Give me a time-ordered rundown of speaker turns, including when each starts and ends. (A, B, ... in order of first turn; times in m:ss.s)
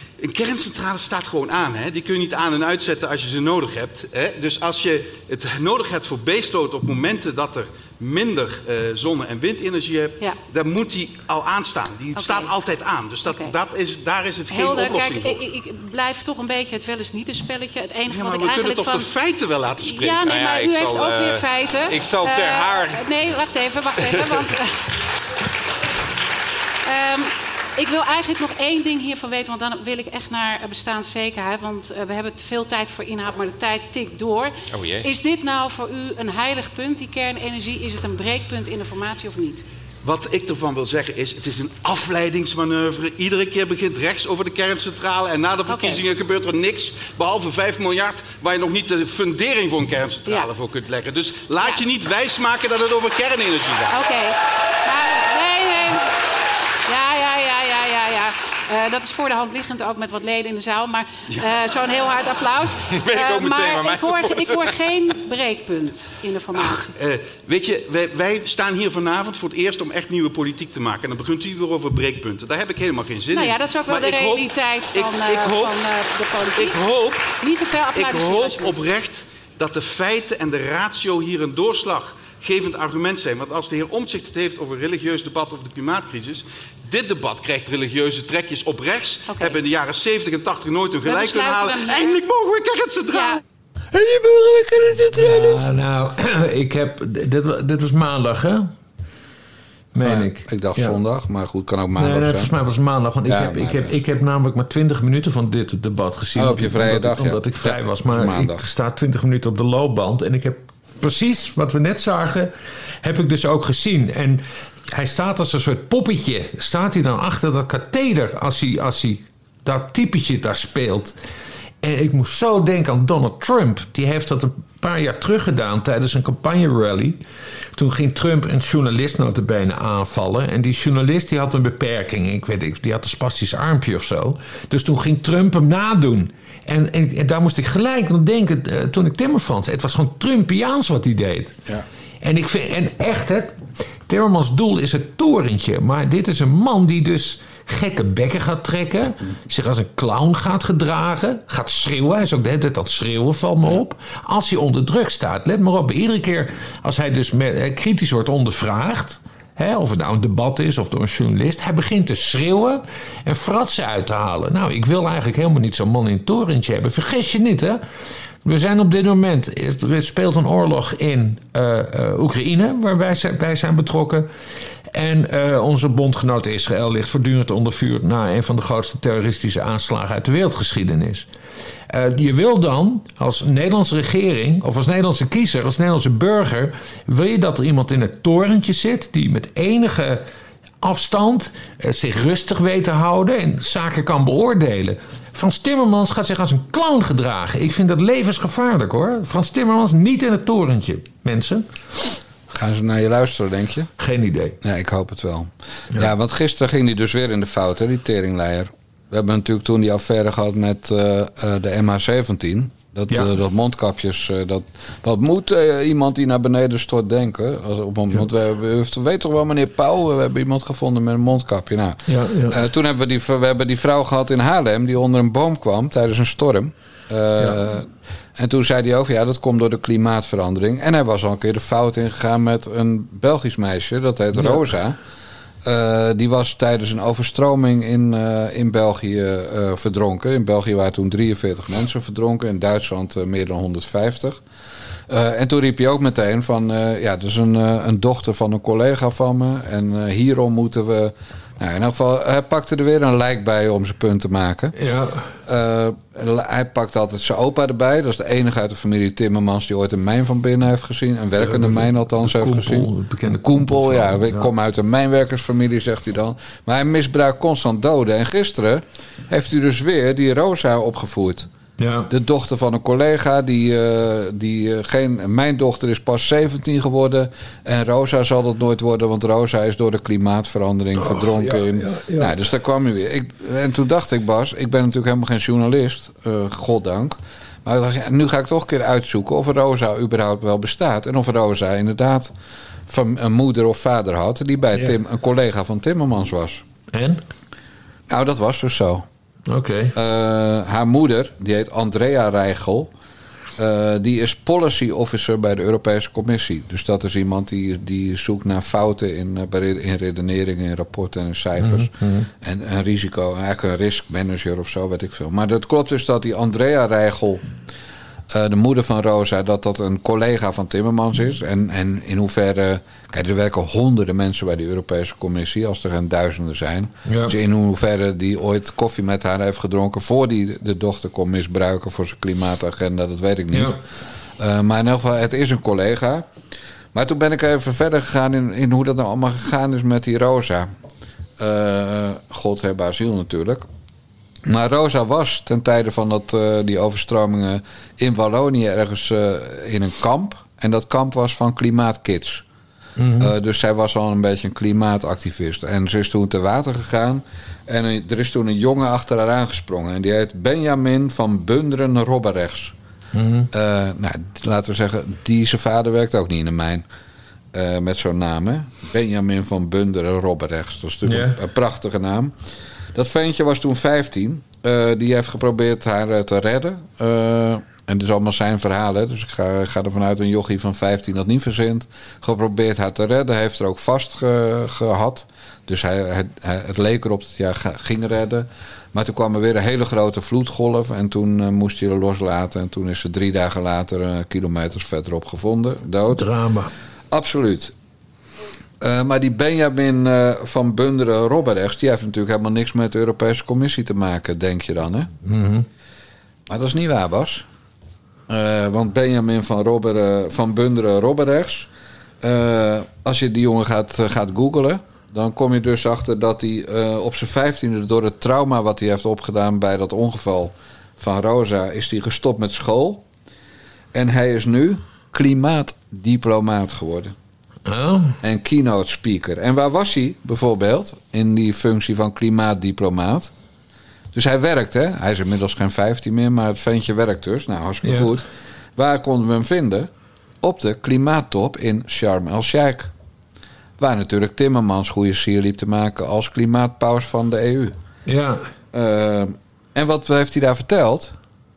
0:00.2-0:15.4 A
0:12.1-0:12.5 B
0:13.2-0:13.5 B
0:14.5-0:19.1 B
0:18.1-0:23.0 A
0:19.8-0:24.7 B
0:24.0-0:24.5 A
0:26.8-0:39.6 B
0:40.0-0:54.0 A
0:45.7-0:46.0 B
0:53.9-0:56.0 B
0:56.9-1:06.9 B
1:01.3-1:01.6 A
1:02.8-1:04.9 A
1:06.5-1:15.8 A
1:13.3-1:18.8 B
1:16.5-1:17.4 A
1:17.9-1:33.4 A
1:29.3-1:29.6 B
1:31.0-1:32.2 B
1:33.1-1:33.4 B
1:34.0-1:35.7 A
1:35.1-1:38.7 C
1:39.9-1:41.0 C
1:40.0-1:42.5 D
1:42.0-1:52.5 C
1:43.3-1:43.9 D
1:46.3-1:48.6 D
1:53.0-2:01.1 C
2:01.8-2:07.2 C
2:07.8-2:21.6 C
2:22.2-2:47.8 C
2:48.4-2:54.3 C
2:54.9-3:01.2 C
3:01.9-3:10.2 C
3:10.8-3:21.6 C
3:22.5-3:23.9 D
3:24.0-3:24.6 C
3:24.6-3:55.0 D
3:42.1-3:42.6 C
3:55.6-4:04.4 D
4:05.1-4:14.8 D
4:14.8-4:15.3 C
4:15.4-4:31.5 D
4:21.4-4:24.5 C
4:31.8-4:32.1 C
4:32.1-4:52.3 D
4:41.0-4:42.3 C
4:52.9-4:56.6 D
4:56.9-4:57.2 C
4:58.1-4:59.0 D
4:59.5-4:59.9 C
4:59.9-5:02.9 D
5:03.6-5:17.4 D
5:11.6-5:12.3 C
5:18.3-5:33.8 D
5:27.0-5:27.3 C
5:33.5-5:33.8 C
5:34.4-5:36.3 D
5:36.9-5:40.7 D
5:41.4-5:43.6 D
5:44.4-5:52.4 D
5:53.0-5:53.3 C
5:53.2-6:02.7 D
6:03.1-6:03.5 C
6:03.5-6:06.8 D
6:07.5-6:12.3 D
6:11.0-6:11.4 C
6:12.9-6:36.2 D
6:36.1-6:36.7 C
6:37.1-6:37.7 D
6:38.8-6:45.1 D
6:45.2-6:45.6 C
6:46.5-6:47.4 D
6:48.3-6:51.7 D
6:52.2-7:03.0 D
7:03.9-7:07.1 D
7:07.6-7:08.2 C
7:08.2-7:13.3 D
7:14.1-7:19.9 D
7:17.8-7:18.1 C
7:20.4-7:22.9 D
7:23.8-7:27.8 D
7:28.1-7:28.4 C
7:28.7-7:31.1 D